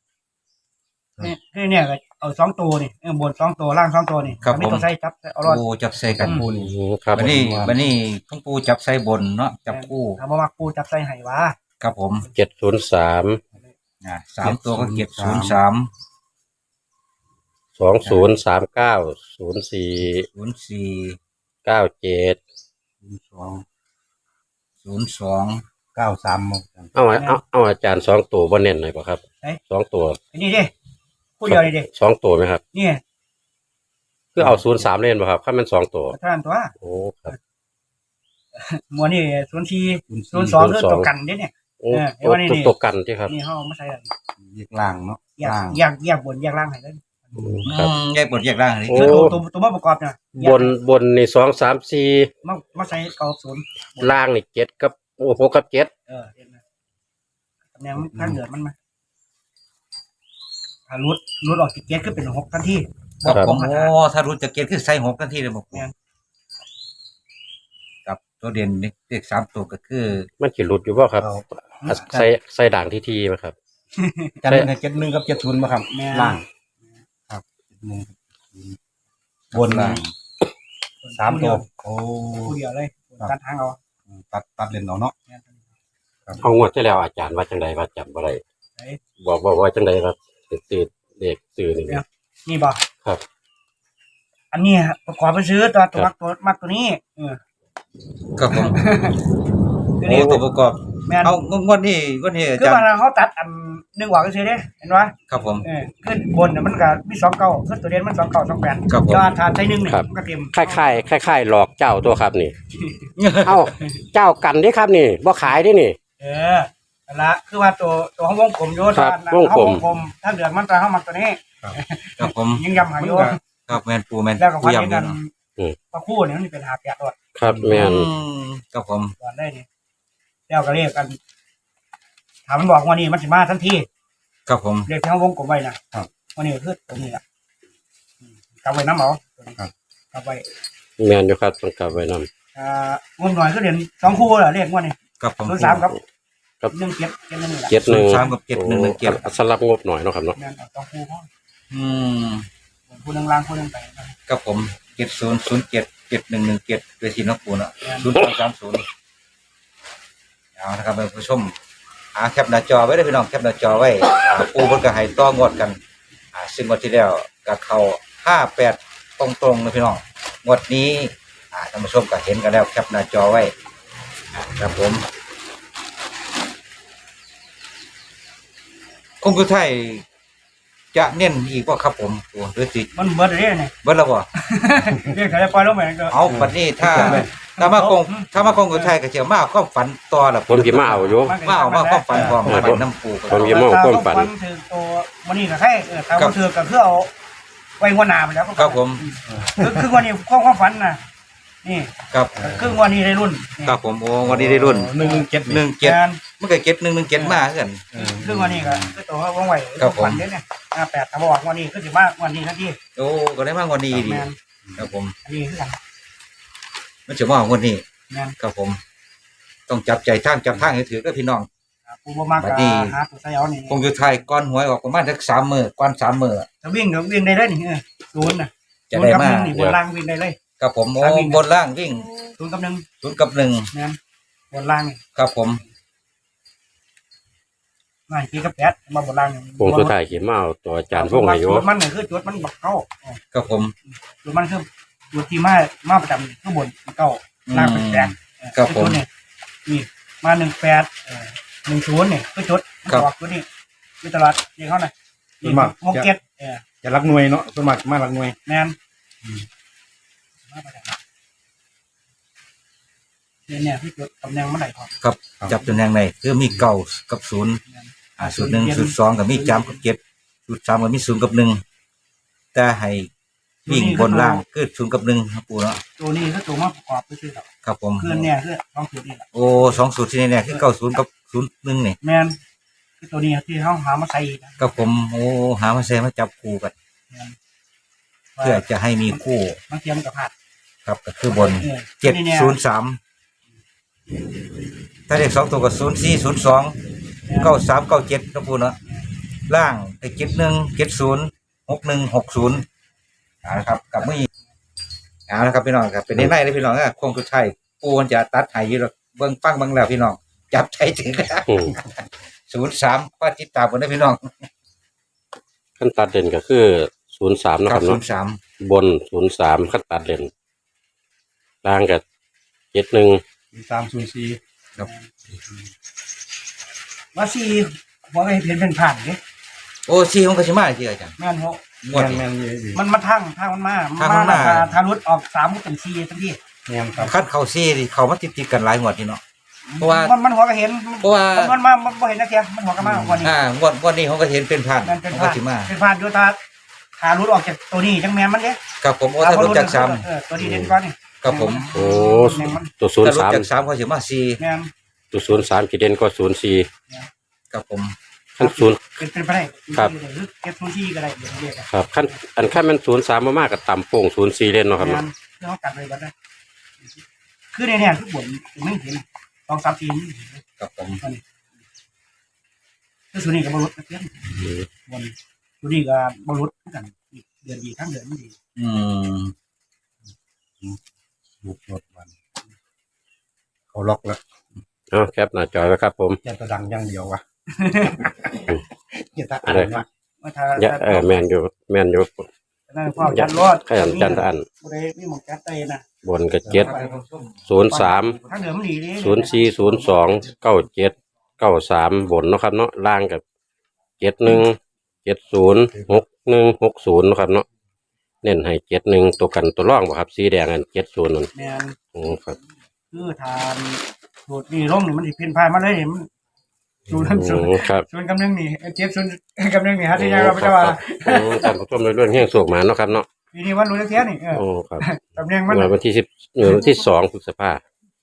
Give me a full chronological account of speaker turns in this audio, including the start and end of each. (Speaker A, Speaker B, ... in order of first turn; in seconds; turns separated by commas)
Speaker A: 1.2-5.6, Speaker B: 4.4-4.9, Speaker B: 5.4-6.5, Speaker C: 6.1-7.9, Speaker A: 6.2-6.5, Speaker D: 6.6-7.3, Speaker B: 7.2-10.2, Speaker A: 9.7-11.6, Speaker B: 11.8-12.3, Speaker D: 12.3-13.4, Speaker B: 14.0-15.9, Speaker C: 14.4-15.6, Speaker D: 17.8-20.3, Speaker B: 20.4-21.2, Speaker D: 21.7-22.4, Speaker C: 23.0-23.6, Speaker B: 24.8-25.6, Speaker C: 25.9-26.9, Speaker D: 26.9-30.2, Speaker A: 30.3-30.7, Speaker A: 31.4-31.9, Speaker D: 31.5-32.6, Speaker A: 32.7-33.0, Speaker D: 34.4-36.2, Speaker C: 34.4-34.8, Speaker A: 36.1-36.7, Speaker D: 36.8-37.3, Speaker A: 38.5-42.7, Speaker C: 40.1-40.7, Speaker D: 40.6-41.1, Speaker D: 41.8-43.3, Speaker A: 43.3-44.1, Speaker C: 44.4-45.8, Speaker A: 45.4-47.5, Speaker C: 47.4-47.7, Speaker D: 47.4-47.9, Speaker B: 47.7-49.4, Speaker D: 48.9-49.4, Speaker A: 48.9-50.7, Speaker D: 50.4-52.3, Speaker A: 52.4-54.2, Speaker D: 54.0-55.9, Speaker A: 56.1-56.6, Speaker A: 57.7-58.7, Speaker C: 58.0-58.4, Speaker A: 60.9-63.9, Speaker B: 63.3-65.9, Speaker D: 63.3-63.5, Speaker B: 68.1-70.3, Speaker D: 70.4-71.3, Speaker C: 71.2-72.3, Speaker D: 71.8-73.5, Speaker A: 74.0-74.4, Speaker C: 74.4-76.4, Speaker A: 75.9-76.4, Speaker C: 77.3-78.8, Speaker B: 79.5-80.1, Speaker C: 79.5-80.0, Speaker A: 81.0-81.7, Speaker C: 81.2-82.6, Speaker A: 82.4-83.8, Speaker C: 84.1-85.1, Speaker A: 85.3-85.7, Speaker D: 86.4-88.4, Speaker D: 89.2-92.0, Speaker A: 91.9-92.8, Speaker A: 94.5-97.4, Speaker B: 98.4-98.8, Speaker A: 98.5-99.2, Speaker A: 100.0-100.4, Speaker B: 100.0-102.9, Speaker A: 101.0-101.4, Speaker A: 102.6-111.0, Speaker B: 105.3-105.7, Speaker B: 108.9-109.3, Speaker D: 109.8-112.5, Speaker A: 112.8-113.1, Speaker B: 113.2-113.7, Speaker D: 113.4-116.0, Speaker A: 116.2-123.4, Speaker D: 118.9-119.8, Speaker B: 122.2-122.6, Speaker C: 122.8-123.4, Speaker B: 123.7-125.2, Speaker A: 124.4-125.3, Speaker A: 125.9-127.2, Speaker D: 127.4-128.1, Speaker C: 127.5-127.9, Speaker B: 127.7-129.1, Speaker A: 129.2-129.7, Speaker A: 130.5-131.2, Speaker A: 132.5-133.9, Speaker B: 134.5-134.9, Speaker A: 134.9-135.8, Speaker A: 136.3-137.2, Speaker A: 138.2-139.6, Speaker A: 140.1-140.4, Speaker D: 141.0-142.3, Speaker A: 142.6-146.0, Speaker B: 145.2-145.8, Speaker A: 146.7-148.3, Speaker D: 147.7-150.4, Speaker B: 147.8-149.3, Speaker A: 150.3-151.3, Speaker B: 151.7-152.5, Speaker A: 152.9-154.2, Speaker B: 154.3-158.8, Speaker A: 157.8-158.1, Speaker B: 160.6-161.6, Speaker B: 162.2-165.8, Speaker B: 166.3-173.5, Speaker B: 174.3-175.0, Speaker B: 179.2-180.1, Speaker B: 180.9-182.9, Speaker A: 182.9-183.7, Speaker B: 183.8-184.3, Speaker A: 184.4-188.9, Speaker B: 186.1-193.7, Speaker C: 186.3-187.3, Speaker D: 190.5-191.4, Speaker A: 191.2-192.5, Speaker C: 192.1-192.8, Speaker D: 192.4-194.3, Speaker A: 193.3-197.1, Speaker A: 197.8-201.0, Speaker B: 198.6-199.0, Speaker C: 199.3-200.0, Speaker A: 201.6-203.8, Speaker B: 202.1-202.4, Speaker C: 202.3-202.8, Speaker B: 203.7-207.8, Speaker C: 204.2-205.7, Speaker A: 205.0-205.3, Speaker A: 205.8-206.2, Speaker A: 207.2-207.4, Speaker C: 207.9-209.0, Speaker A: 207.9-212.8, Speaker B: 209.8-210.2, Speaker B: 213.0-215.1, Speaker A: 213.9-214.4, Speaker A: 215.2-215.8, Speaker B: 217.1-217.8, Speaker A: 218.1-218.4, Speaker B: 218.4-218.8, Speaker B: 219.7-221.5, Speaker A: 221.9-223.8, Speaker B: 222.4-223.0, Speaker B: 223.7-226.5, Speaker A: 226.6-230.4, Speaker B: 228.9-229.6, Speaker B: 230.6-232.1, Speaker A: 231.0-231.4, Speaker A: 232.4-232.8, Speaker B: 233.0-233.7, Speaker A: 233.7-234.0, Speaker A: 234.5-235.0, Speaker B: 235.2-235.6, Speaker A: 238.1-239.9, Speaker D: 239.6-241.7, Speaker A: 240.9-243.2, Speaker B: 243.3-243.7, Speaker A: 243.9-249.1, Speaker B: 247.5-249.0, Speaker A: 249.7-253.4, Speaker A: 254.0-256.6, Speaker C: 255.4-256.1, Speaker C: 256.8-258.4, Speaker A: 258.4-258.8, Speaker A: 260.5-261.0, Speaker A: 263.5-265.0, Speaker B: 265.0-267.6, Speaker A: 267.7-269.8, Speaker B: 268.2-271.6, Speaker B: 272.5-273.1, Speaker A: 273.6-274.4, Speaker B: 273.7-275.8, Speaker A: 276.0-277.5, Speaker B: 277.6-278.3, Speaker A: 278.0-279.8, Speaker B: 279.3-282.0, Speaker A: 282.0-282.4, Speaker A: 283.0-284.6, Speaker B: 284.6-286.7, Speaker A: 287.1-287.4, Speaker A: 288.4-290.3, Speaker B: 288.4-289.6, Speaker B: 290.9-293.0, Speaker A: 291.3-292.6, Speaker B: 295.1-296.8, Speaker A: 297.3-297.6, Speaker B: 297.4-298.8, Speaker B: 299.5-302.6, Speaker B: 303.4-304.3, Speaker B: 305.3-311.9, Speaker D: 311.5-311.7, Speaker B: 312.5-314.5, Speaker D: 315.8-318.0, Speaker B: 317.7-318.4, Speaker D: 318.6-320.3, Speaker D: 321.6-322.0, Speaker D: 322.7-323.2, Speaker C: 323.5-324.4, Speaker A: 324.8-325.1, Speaker A: 327.1-329.2, Speaker B: 329.9-331.1, Speaker A: 331.2-331.6, Speaker B: 331.8-332.2, Speaker C: 331.9-332.8, Speaker A: 332.7-336.4, Speaker B: 334.0-334.7, Speaker C: 336.7-337.1, Speaker B: 337.1-339.2, Speaker A: 339.7-343.3, Speaker B: 339.8-340.1, Speaker B: 341.0-341.5, Speaker C: 342.8-343.2, Speaker B: 343.2-345.7, Speaker A: 344.8-346.4, Speaker A: 347.0-348.6, Speaker B: 348.8-350.1, Speaker A: 349.2-352.7, Speaker D: 350.4-350.7, Speaker B: 351.2-352.1, Speaker D: 351.7-353.5, Speaker B: 353.0-354.4, Speaker A: 354.4-354.7, Speaker D: 355.1-356.7, Speaker B: 357.5-357.9, Speaker D: 358.4-358.8, Speaker A: 358.4-361.7, Speaker D: 361.7-365.0, Speaker A: 364.8-366.1, Speaker A: 367.5-370.4, Speaker B: 370.6-371.0, Speaker A: 373.1-374.2, Speaker D: 374.4-374.7, Speaker A: 374.9-378.4, Speaker B: 378.6-379.3, Speaker C: 381.4-382.1, Speaker C: 383.7-384.2, Speaker D: 384.9-386.2, Speaker C: 386.2-387.2, Speaker A: 387.6-388.1, Speaker C: 388.0-389.9, Speaker D: 389.4-389.8, Speaker A: 390.2-391.2, Speaker D: 390.6-392.3, Speaker A: 392.7-395.8, Speaker D: 393.0-394.5, Speaker D: 396.0-396.7, Speaker C: 396.4-396.8, Speaker B: 396.5-398.4, Speaker A: 396.6-397.0, Speaker D: 397.5-398.2, Speaker A: 397.7-400.3, Speaker D: 399.0-403.2, Speaker D: 404.0-407.5, Speaker D: 408.2-411.3, Speaker A: 411.3-411.8, Speaker D: 411.9-412.4, Speaker A: 412.9-416.1, Speaker A: 416.9-421.5, Speaker D: 416.9-417.9, Speaker D: 419.9-423.1, Speaker A: 423.3-425.7, Speaker D: 424.3-424.9, Speaker D: 425.5-427.6